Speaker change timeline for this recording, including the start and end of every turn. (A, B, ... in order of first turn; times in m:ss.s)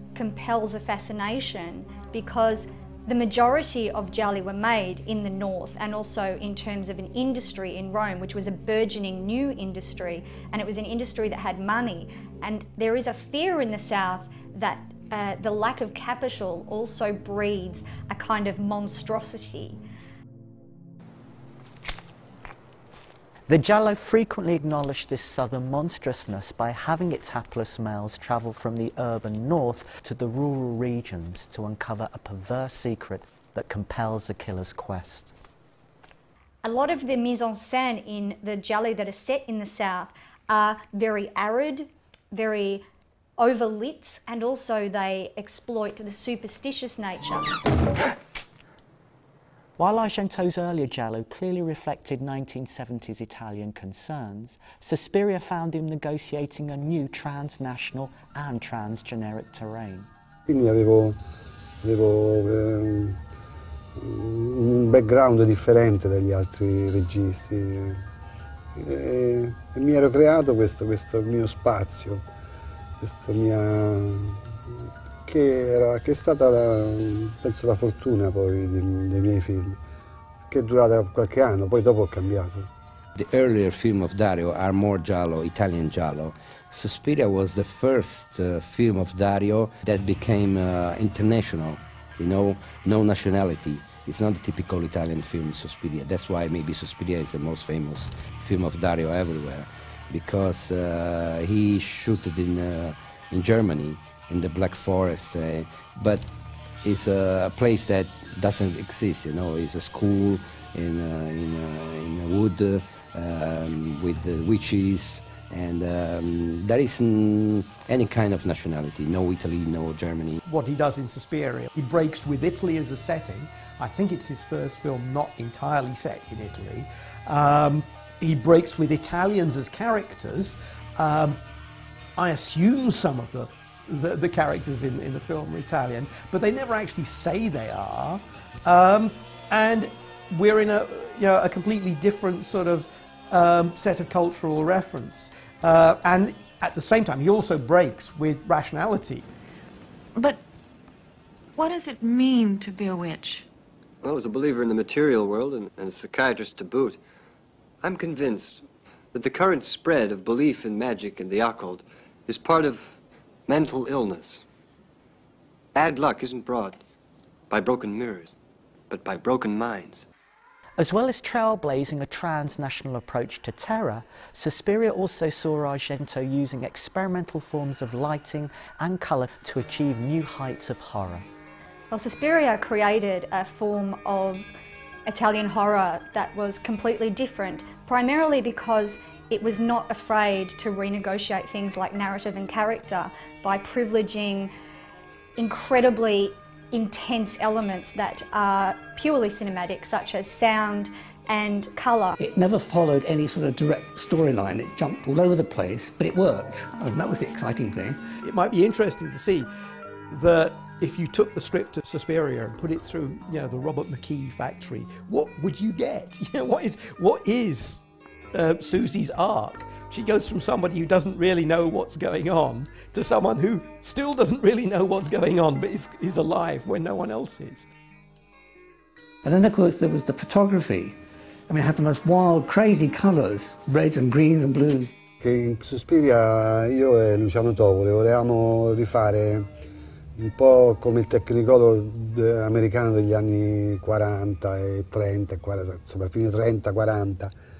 0:00.1-0:19.8 A
0:23.5-0:35.3 B
0:36.6-0:42.8 A
0:43.4-0:47.5 A
0:49.8-1:00.1 B
1:00.5-1:01.2 C
1:01.8-1:03.2 C
1:04.0-1:08.0 C
1:08.7-1:12.2 C
1:13.0-1:14.4 C
1:15.2-1:19.8 C
1:20.5-1:22.7 C
1:23.2-1:46.3 D
1:46.8-2:00.4 D
2:00.4-2:11.4 E
2:12.2-2:29.2 E
2:30.1-2:30.4 F
2:31.6-2:33.5 F
2:34.0-2:37.0 G
2:37.8-2:42.9 G
2:43.5-2:44.4 G
2:45.7-2:46.8 G
2:47.5-2:48.3 G
2:48.9-2:50.0 G
2:50.8-3:01.2 B
3:01.9-3:04.5 A
3:05.1-3:14.5 A
3:15.4-3:22.2 A
3:22.2-3:28.0 H
3:28.2-3:29.5 E
3:30.1-3:47.7 E
3:49.2-3:51.0 H
3:51.5-3:54.9 H
3:55.2-3:59.5 C
4:00.2-4:07.3 C